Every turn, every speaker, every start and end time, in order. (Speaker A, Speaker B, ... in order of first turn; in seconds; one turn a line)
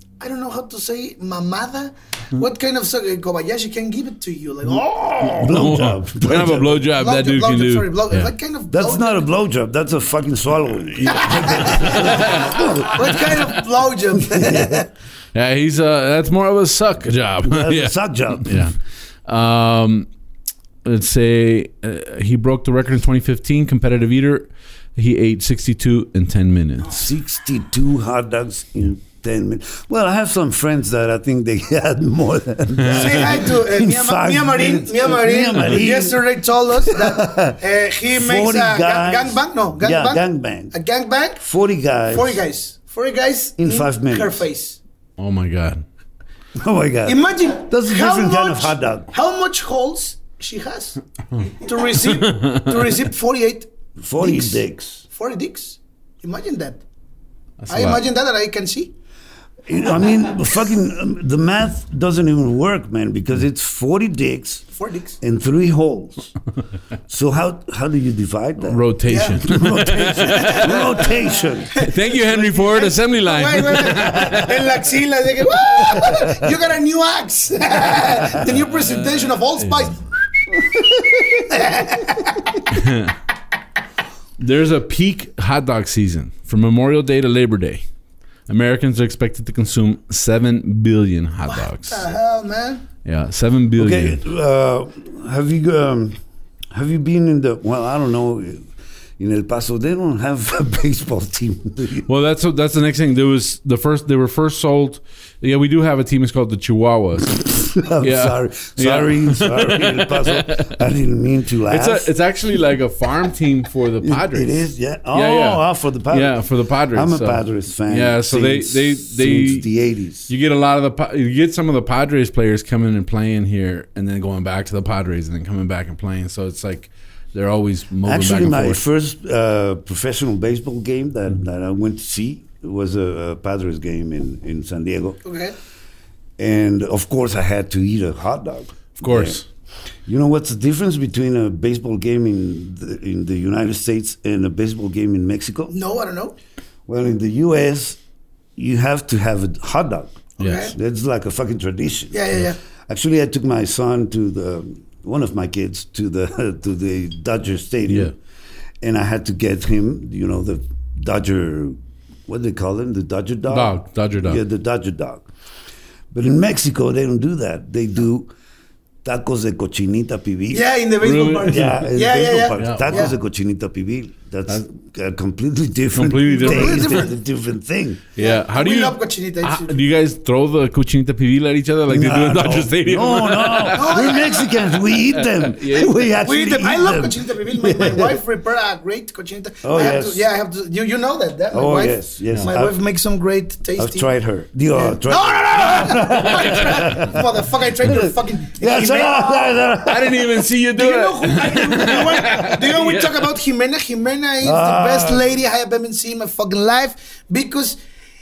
Speaker A: 0.2-5.5
Speaker B: 5.2-6.8
Speaker C: 5.2-8.3
Speaker A: 6.9-9.2
Speaker B: 8.7-13.2
Speaker C: 11.0-12.8
Speaker A: 11.1-14.9
Speaker B: 14.2-14.8
Speaker C: 15.3-18.7
Speaker B: 17.4-18.7
Speaker C: 19.3-20.1
Speaker C: 20.8-27.1
Speaker B: 26.9-36.2
Speaker C: 32.8-33.3
Speaker A: 32.9-41.4
Speaker B: 36.8-40.7
Speaker B: 41.4-42.4
Speaker A: 42.1-44.8
Speaker B: 43.6-44.4
Speaker C: 45.2-45.8
Speaker B: 46.5-49.1
Speaker A: 47.0-56.8
Speaker C: 52.0-53.0
Speaker B: 54.0-55.0
Speaker C: 57.6-58.0
Speaker A: 57.7-58.9
Speaker B: 59.7-64.6
Speaker A: 64.7-65.2
Speaker B: 65.2-66.3
Speaker B: 67.1-71.8
Speaker C: 68.6-71.0
Speaker A: 69.1-80.0
Speaker C: 71.8-74.8
Speaker B: 76.0-76.3
Speaker C: 79.6-79.9
Speaker B: 80.7-81.4
Speaker A: 81.3-82.6
Speaker C: 82.7-83.2
Speaker C: 84.4-87.8
Speaker C: 88.5-92.0
Speaker A: 91.5-92.8
Speaker C: 93.0-94.2
Speaker B: 93.8-96.2
Speaker B: 96.7-102.1
Speaker C: 102.1-110.7
Speaker B: 107.5-112.1
Speaker C: 111.7-119.7
Speaker B: 114.0-116.4
Speaker B: 116.9-120.3
Speaker C: 120.3-128.8
Speaker B: 128.0-135.2
Speaker A: 135.2-135.5
Speaker B: 136.4-139.4
Speaker C: 139.0-139.4
Speaker B: 140.1-145.7
Speaker A: 145.7-146.3
Speaker B: 146.9-148.0
Speaker B: 148.6-152.2
Speaker A: 150.4-150.7
Speaker C: 150.4-150.6
Speaker A: 152.1-152.6
Speaker B: 152.9-158.1
Speaker B: 158.8-165.2
Speaker C: 163.5-164.4
Speaker B: 166.1-168.3
Speaker B: 169.0-170.7
Speaker A: 170.5-173.1
Speaker C: 171.0-171.8
Speaker B: 171.4-178.0
Speaker C: 172.6-173.1
Speaker C: 175.9-177.1
Speaker A: 176.3-177.1
Speaker C: 178.1-186.0
Speaker A: 178.2-179.8
Speaker B: 181.9-188.2
Speaker A: 183.7-184.5
Speaker A: 186.2-194.1
Speaker B: 189.6-190.2
Speaker B: 191.5-192.8
Speaker B: 193.8-200.4
Speaker A: 194.7-199.6
Speaker C: 199.8-203.3
Speaker A: 200.7-207.8
Speaker B: 204.4-205.3